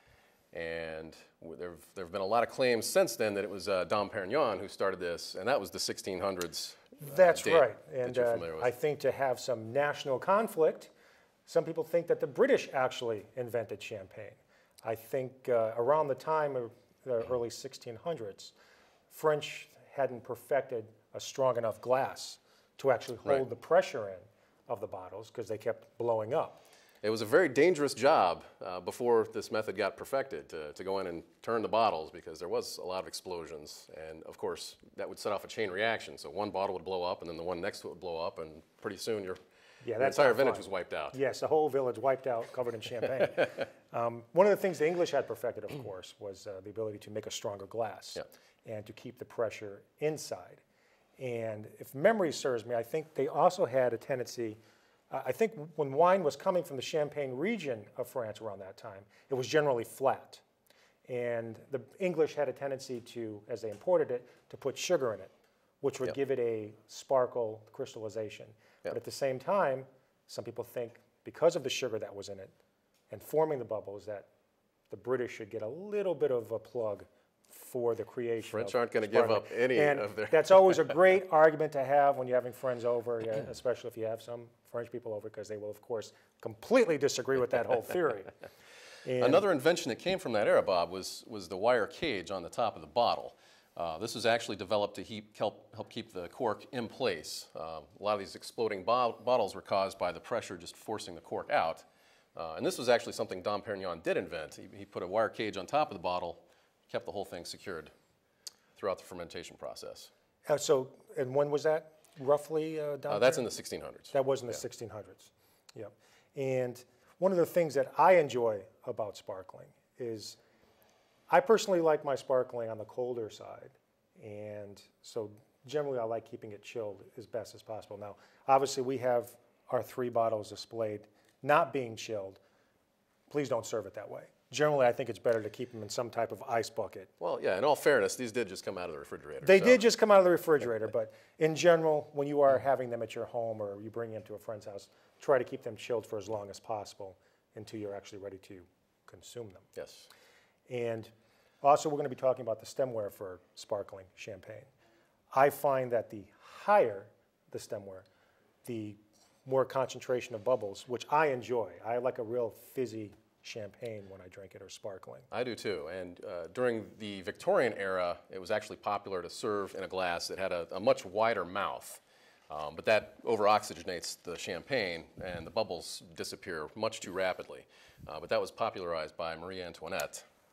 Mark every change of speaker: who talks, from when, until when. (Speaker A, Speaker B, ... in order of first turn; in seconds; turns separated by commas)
Speaker A: 0.5-8.7, Speaker B: 7.0-10.9, Speaker B: 11.4-18.5, Speaker B: 19.1-26.6, Speaker A: 27.0-39.4, Speaker B: 39.8-50.6, Speaker A: 40.0-41.2, Speaker B: 51.2-54.6, Speaker B: 55.1-60.4, Speaker B: 61.0-72.5, Speaker B: 73.1-74.3, Speaker B: 74.9-88.3, Speaker A: 78.4-80.9, Speaker B: 89.0-89.4, Speaker A: 89.2-107.9, Speaker A: 108.8-110.1, Speaker B: 110.5-113.5, Speaker A: 113.1-114.2, Speaker B: 114.1-120.4, Speaker B: 121.3-132.4, Speaker B: 133.3-137.1, Speaker A: 137.2-139.8, Speaker B: 139.4-149.7, Speaker A: 149.8-150.1, Speaker B: 150.7-154.7, Speaker B: 155.3-158.1, Speaker B: 158.6-165.3, Speaker A: 165.3-180.2